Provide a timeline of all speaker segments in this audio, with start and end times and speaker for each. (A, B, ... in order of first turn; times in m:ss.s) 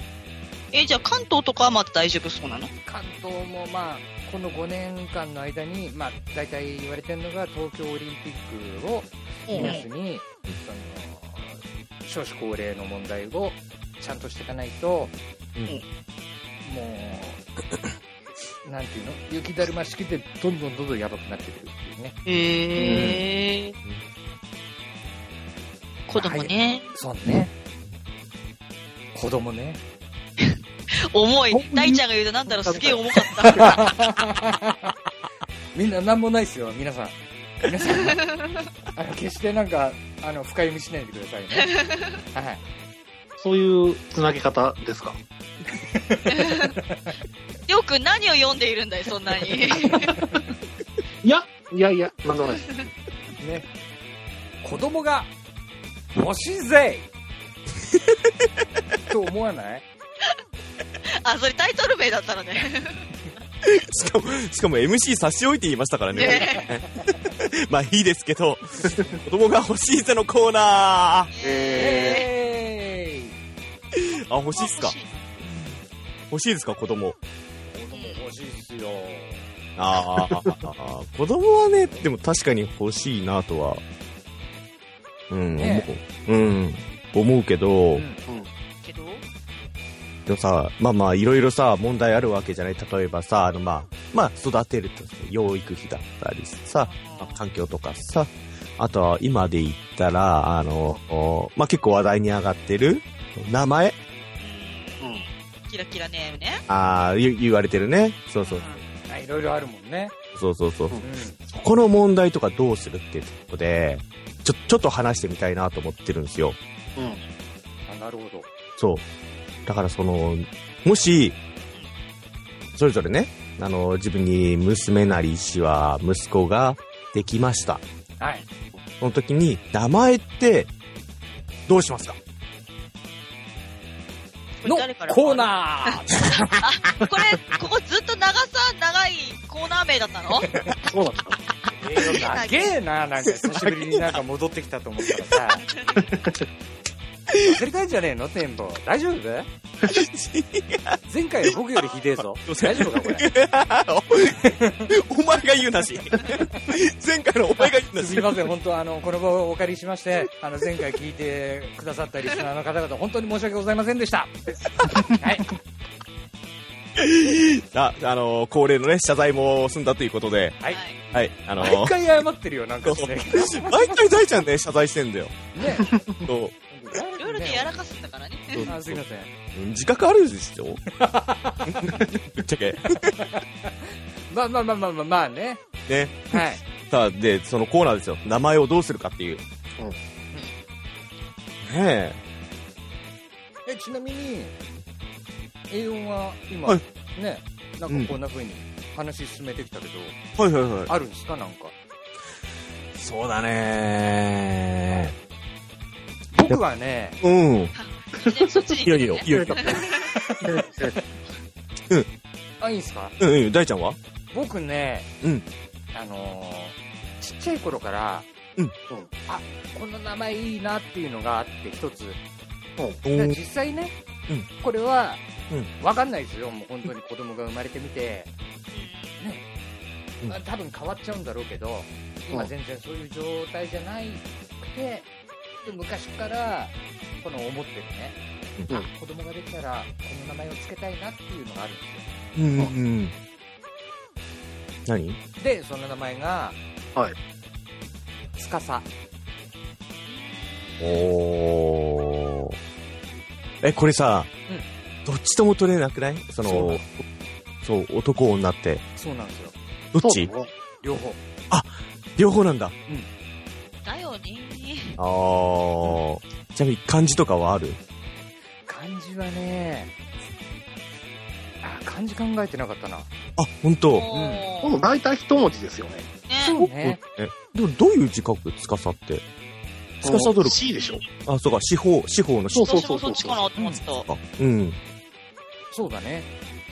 0:00.7-0:02.7 A
0:02.9-0:15.1 B
0:09.5-0:09.8 A
0:09.5-0:09.8 C
0:16.6-0:17.4 B
0:18.6-0:22.2 B
0:22.3-0:23.8 A
0:22.8-0:23.2 B
0:22.9-0:23.2 D
0:26.1-0:26.9 A
0:26.2-0:27.5 B
0:29.2-0:29.8 B
0:30.4-0:34.0 A
0:31.5-0:33.0 C
0:33.5-0:34.9 B
0:35.7-0:38.2 B
0:38.0-0:38.7 A
0:39.0-0:41.7 B
0:41.6-0:42.1 A
0:42.3-0:42.6 B
0:43.4-0:45.2 C
0:45.7-0:47.1 B
0:46.3-0:46.8 A
0:47.7-0:50.2 A
0:51.2-0:52.6 C
0:52.5-0:52.9 A
0:53.4-0:53.7 B
0:54.6-0:55.3 B
0:56.1-0:57.1 B
0:59.1-0:59.9 B
1:01.1-1:03.1 A
1:03.6-1:11.3 D
1:06.1-1:06.6 A
1:06.2-1:06.7 B
1:11.3-1:12.3 A
1:11.4-1:12.2 C
1:11.8-1:13.3 B
1:14.0-1:15.8 D
1:14.6-1:15.2 A
1:16.3-1:17.2 D
1:17.7-1:19.5 B
1:17.9-1:18.3 A
1:19.8-1:23.8 D
1:25.3-1:28.0 D
1:25.5-1:25.9 B
1:27.9-1:28.2 B
1:28.8-1:29.2 A
1:30.3-1:44.0 D
1:36.9-1:37.4 A
1:44.4-1:46.6 A
1:46.7-1:48.7 D
1:49.1-1:50.1 B
1:50.4-1:56.6 D
1:51.0-1:51.4 B
1:57.0-1:57.2 C
1:57.9-1:58.5 B
1:58.8-1:59.0 D
1:59.7-2:01.4 D
2:02.8-2:07.8 D
2:08.2-2:08.4 B
2:09.0-2:10.7 D
2:11.7-2:12.2 D
2:14.6-2:16.0 A
2:14.6-2:16.6 B
2:16.6-2:20.5 A
2:20.8-2:21.4 C
2:21.8-2:25.6 B
2:22.0-2:22.8 A
2:23.3-2:24.2 D
2:25.6-2:26.0 A
2:26.0-2:26.4 C
2:27.3-2:27.6 D
2:27.4-2:29.5 B
2:29.9-2:31.0 D
2:31.1-2:33.3 B
2:32.4-2:38.3 D
2:34.3-2:34.9 B
2:37.6-2:45.5 B
2:47.0-2:50.6 D
2:50.7-2:51.0 A
2:51.1-2:52.0 D
2:51.6-2:54.0 B
2:52.8-2:55.5 D
2:55.5-2:56.0 B
2:55.9-2:56.3 C
2:56.2-2:56.5 D
2:56.7-2:57.7 B
2:57.2-2:58.7 A
2:58.5-2:59.0 D
2:58.6-2:59.3 B
2:59.5-3:00.8 D
3:00.9-3:02.0 B
3:01.7-3:03.2 D
3:02.8-3:05.6 B
3:05.9-3:09.4 D
3:06.3-3:06.6 B
3:11.6-3:12.2 D
3:13.7-3:14.6 B
3:15.7-3:20.2 B
3:17.9-3:18.1 D
3:20.4-3:20.9 D
3:20.9-3:21.7 B
3:22.9-3:25.2 D
3:26.3-3:27.2 B
3:27.2-3:27.7 D
3:27.8-3:30.1 A
3:28.3-3:28.7 C
3:28.8-3:29.8 D
3:29.3-3:29.8 C
3:30.2-3:31.0 B
3:30.4-3:31.0 C
3:32.6-3:33.2 B
3:33.2-3:34.0 D
3:34.3-3:35.1 B
3:35.9-3:38.3 B
3:39.3-3:42.2 B
3:43.0-3:43.4 D
3:43.1-3:44.0 B
3:44.6-3:45.2 B
3:45.8-3:48.3 B
3:48.7-3:49.2 A
3:49.2-3:49.4 B
3:50.3-3:55.1 B
3:55.6-3:58.2 B
3:58.8-4:02.1 B
4:02.4-4:03.2 D
4:04.9-4:05.2 D
4:05.4-4:06.6 B
4:08.4-4:08.9 B
4:10.1-4:11.1 A
4:10.8-4:12.6 D
4:13.6-4:14.3 D
4:15.0-4:17.0 D
4:17.6-4:18.8 D
4:19.0-4:19.6 B
4:19.9-4:20.3 D
4:20.0-4:20.5 C
4:20.8-4:21.2 B
4:21.5-4:22.7 D
4:23.8-4:25.0 A
4:25.0-4:27.8 D
4:28.7-4:29.9 B
4:31.6-4:33.1 B
4:33.4-4:34.1 D
4:34.0-4:34.8 A
4:34.1-4:34.4 B
4:34.6-4:36.1 C
4:36.3-4:36.6 A
4:36.4-4:37.0 B
4:36.6-4:39.2 D
4:40.0-4:40.6 D
4:40.0-4:41.0 C
4:40.8-4:41.0 A
4:41.2-4:42.7 D
4:42.5-4:43.4 C
4:42.6-4:44.1 A
4:43.6-4:43.8 B
4:44.1-4:44.8 D
4:45.7-4:46.3 B